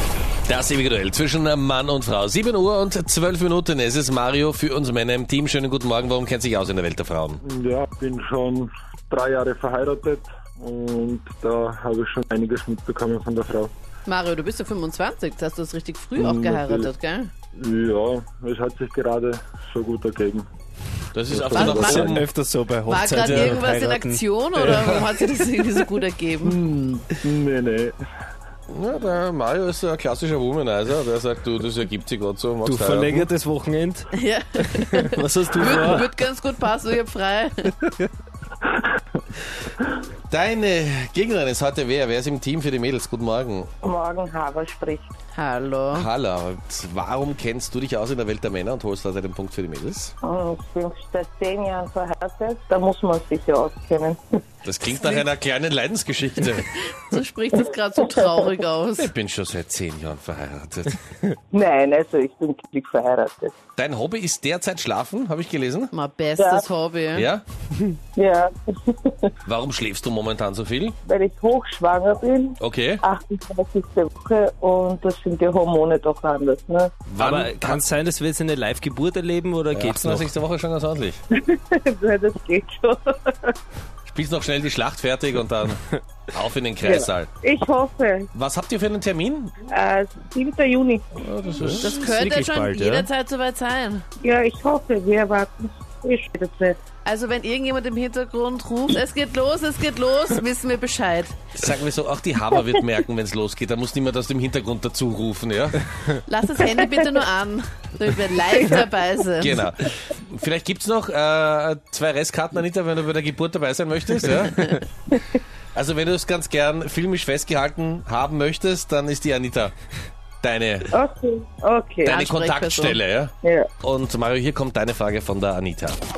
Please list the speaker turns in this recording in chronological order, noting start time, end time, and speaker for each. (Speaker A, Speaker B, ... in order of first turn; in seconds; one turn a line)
Speaker A: 0.5-7.4
Speaker B: 7.4-13.7
Speaker C: 14.1-17.3
Speaker B: 16.2-16.9
Speaker B: 17.6-20.5
Speaker A: 21.1-22.3
Speaker B: 21.3-22.1
Speaker C: 21.6-22.2
Speaker D: 21.6-24.2
Speaker C: 22.9-26.6
Speaker A: 23.2-23.6
Speaker B: 26.4-27.9
Speaker A: 28.7-33.3
Speaker D: 32.6-36.1
Speaker C: 34.1-37.7
Speaker A: 40.3-43.7
Speaker E: 43.8-45.1
Speaker C: 45.3-46.1
Speaker A: 45.9-50.1
Speaker E: 50.2-54.2
Speaker A: 54.6-56.7
Speaker C: 54.8-55.3
Speaker C: 56.4-59.1
Speaker A: 59.0-61.0
Speaker E: 61.5-63.5
Speaker A: 63.8-65.9
Speaker C: 65.9-67.3
Speaker E: 66.4-66.7
Speaker A: 67.2-67.4
Speaker E: 68.2-69.3
Speaker A: 69.5-71.0
Speaker E: 71.0-76.9
Speaker A: 72.6-73.0
Speaker A: 77.1-77.8
Speaker D: 77.1-80.3
Speaker A: 79.7-81.2
Speaker E: 81.3-83.5
Speaker A: 84.1-85.8
Speaker A: 86.3-87.3
Speaker E: 86.8-88.3
Speaker A: 88.3-89.5
Speaker E: 89.7-91.2
Speaker A: 91.2-92.1
Speaker D: 91.6-93.1
Speaker C: 91.8-94.0
Speaker E: 94.2-96.8
Speaker C: 97.0-101.4
Speaker A: 101.6-105.8
Speaker C: 106.3-109.6
Speaker A: 109.4-114.8
Speaker A: 115.8-119.7
Speaker A: 120.4-120.9
Speaker E: 120.9-122.1
Speaker C: 122.0-123.0
Speaker A: 122.0-126.0
Speaker E: 123.4-123.7